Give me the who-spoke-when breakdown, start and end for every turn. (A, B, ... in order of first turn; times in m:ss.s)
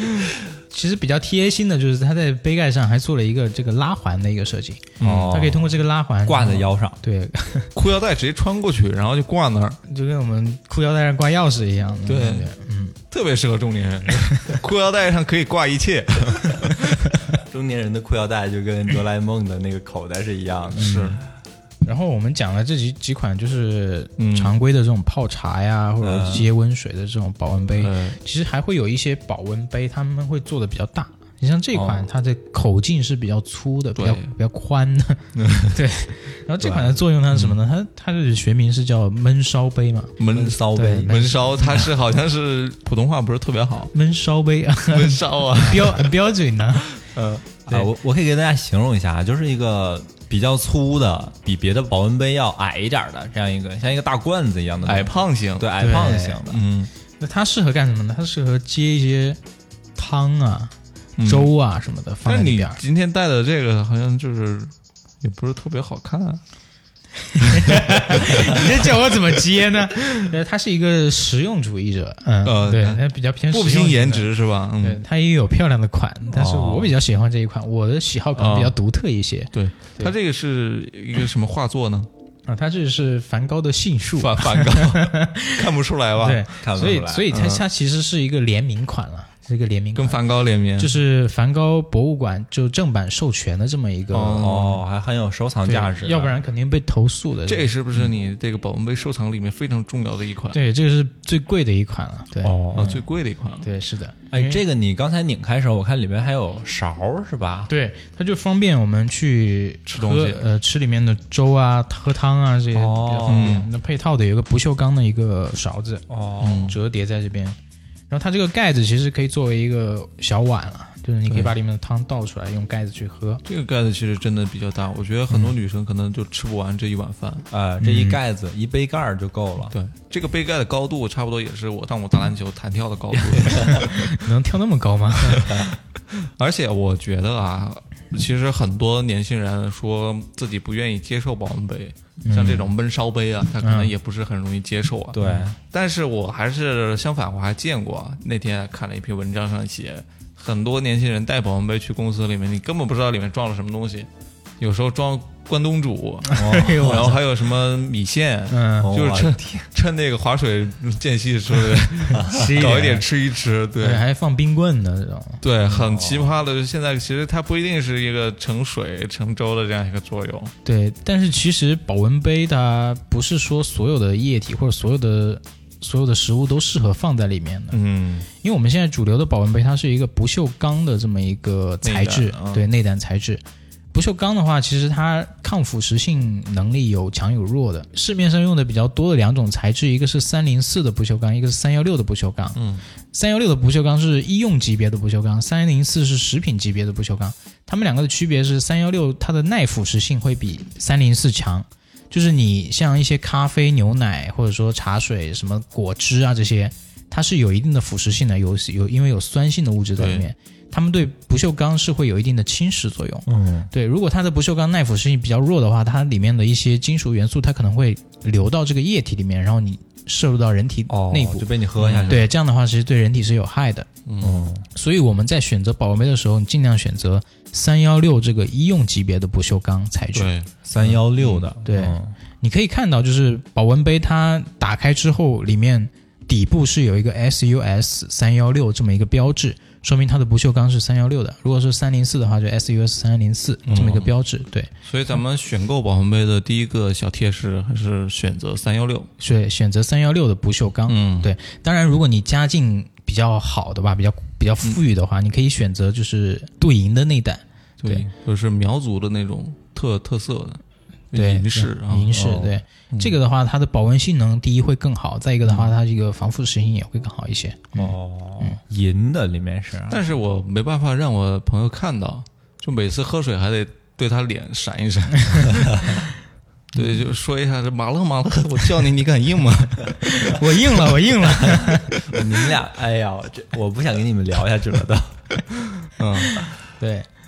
0:00.7-0:07.7 A
0:05.0-0:05.4 B
0:05.0-0:07.0 C
0:07.8-0:09.8 B
0:09.9-0:13.0 A
0:12.1-0:12.5 B
0:13.1-0:17.0 B
0:17.5-0:21.0 C
0:20.7-0:21.2 B
0:20.8-0:21.2 A
0:21.8-0:40.2 A
0:24.2-0:24.6 B
0:26.0-0:26.5 C
0:27.8-0:28.2 B
0:31.7-0:32.1 C
0:34.0-0:34.3 B
0:35.4-0:35.8 B
0:36.6-0:37.0 C
0:40.2-0:43.9 B
0:40.3-0:41.2 C
0:40.7-0:41.4 A
0:43.9-0:46.9 A
0:44.9-0:46.1 B
0:47.0-0:47.6 B
0:47.7-0:56.6 C
0:54.8-0:55.8 B
0:55.8-0:56.4 A
0:56.5-0:56.9 B
0:57.2-0:59.4 A
1:00.0-1:02.8 A
1:01.2-1:01.5 B
1:02.3-1:06.4 B
1:07.3-1:14.3 A
1:07.5-1:08.7 B
1:12.4-1:15.0 B
1:14.8-1:20.1 A
1:16.3-1:16.9 C
1:18.4-1:18.8 B
1:19.5-1:22.1 B
1:22.5-1:25.7 A
1:24.2-1:26.5 B
1:26.2-1:30.2 A
1:26.6-1:27.3 C
1:27.3-1:27.6 B
1:30.0-1:31.0 B
1:30.8-1:34.5 A
1:34.1-1:34.8 B
1:34.4-1:36.4 C
1:35.6-1:37.7 A
1:37.5-1:40.6 B
1:40.5-1:42.9 A
1:42.4-1:43.0 C
1:42.7-1:43.7 B
1:43.6-1:44.6 A
1:44.3-1:47.7 C
1:47.7-1:56.0 A
1:49.9-1:50.4 B
1:52.7-1:53.6 C
1:53.3-1:53.7 B
1:56.1-1:56.7 C
1:56.4-1:56.8 B
1:56.6-1:57.6 A
1:58.1-2:03.4 A
2:03.4-2:07.5 B
2:07.5-2:09.8 C
2:07.8-2:08.2 A
2:09.7-2:14.1 B
2:13.1-2:13.8 C
2:13.7-2:15.5 A
2:15.3-2:34.1 B
2:15.5-2:15.7 C
2:22.2-2:22.7 A
2:23.6-2:23.9 A
2:25.1-2:25.6 C
2:34.6-2:44.0 B
2:36.3-2:37.2 A
2:36.4-2:37.2 C
2:38.5-2:38.9 A
2:38.8-2:39.7 C
2:42.1-2:42.8 C
2:42.3-2:43.0 A
2:43.8-2:45.4 A
2:45.4-2:50.5 B
2:45.7-2:46.4 C
2:50.6-2:57.8 A
2:57.7-2:58.3 B
2:58.4-3:03.4 A
3:01.8-3:02.6 B
3:03.9-3:12.6 A
3:13.1-3:41.5 A
3:30.0-3:30.2 B
3:33.3-3:33.7 C
3:40.9-3:42.2 C
3:41.8-3:42.2 B
3:42.1-3:43.9 A
3:44.1-3:44.5 B
3:44.2-3:44.6 C
3:44.7-3:50.3 A
3:50.1-3:51.5 B
3:50.6-3:52.1 C
3:51.6-4:04.7 A
4:03.7-4:04.1 B
4:04.8-4:09.1 B
4:09.2-4:18.1 A
4:10.9-4:11.3 B
4:17.8-4:22.2 B
4:21.1-4:27.8 A
4:22.1-4:22.5 C
4:22.9-4:23.2 B
4:25.4-4:25.7 B
4:27.7-4:30.0 C
4:29.9-4:36.0 B
4:36.8-4:40.0 B
4:40.0-4:41.9 A
4:42.1-4:45.2 C
4:45.9-4:46.4 B
4:46.8-4:47.1 A